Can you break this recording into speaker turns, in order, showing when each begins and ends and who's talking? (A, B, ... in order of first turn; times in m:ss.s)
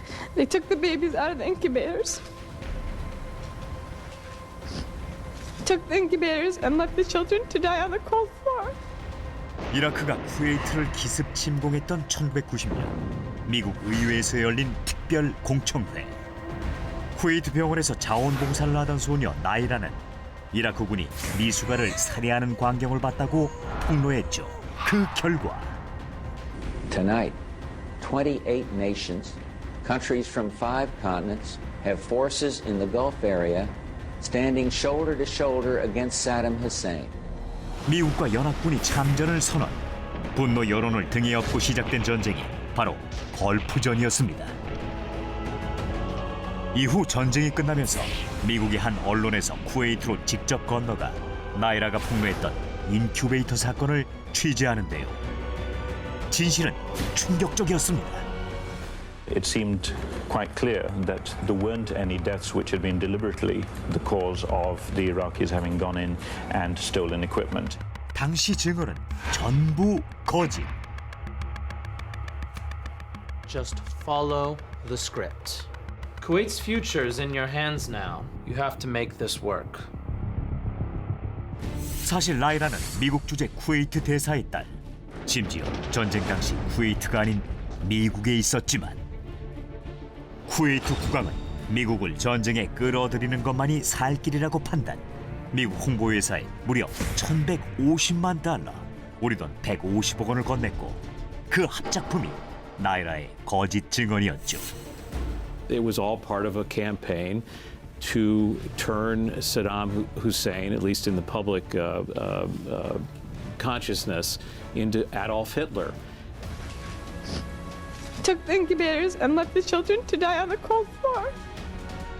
0:00.3-0:02.2 A
0:05.6-0:08.8 A
0:09.7-0:12.9 B
0:13.4-0:16.1 B
0:17.1-0:25.8 B
0:26.9-0:27.4 C
0:28.0-0:37.1 C
0:37.8-0:39.8 B
0:40.3-0:44.6 B
0:46.7-0:55.2 B
0:56.3-0:58.3 B
0:59.3-1:07.8 D
1:08.1-1:10.7 B
1:13.5-1:15.6 E
1:16.2-1:19.8 E
1:22.0-1:29.0 B
1:30.4-1:44.7 B
1:45.7-1:47.4 F
1:48.0-1:53.0 F
1:53.6-1:56.0 F
1:58.2-2:01.3 A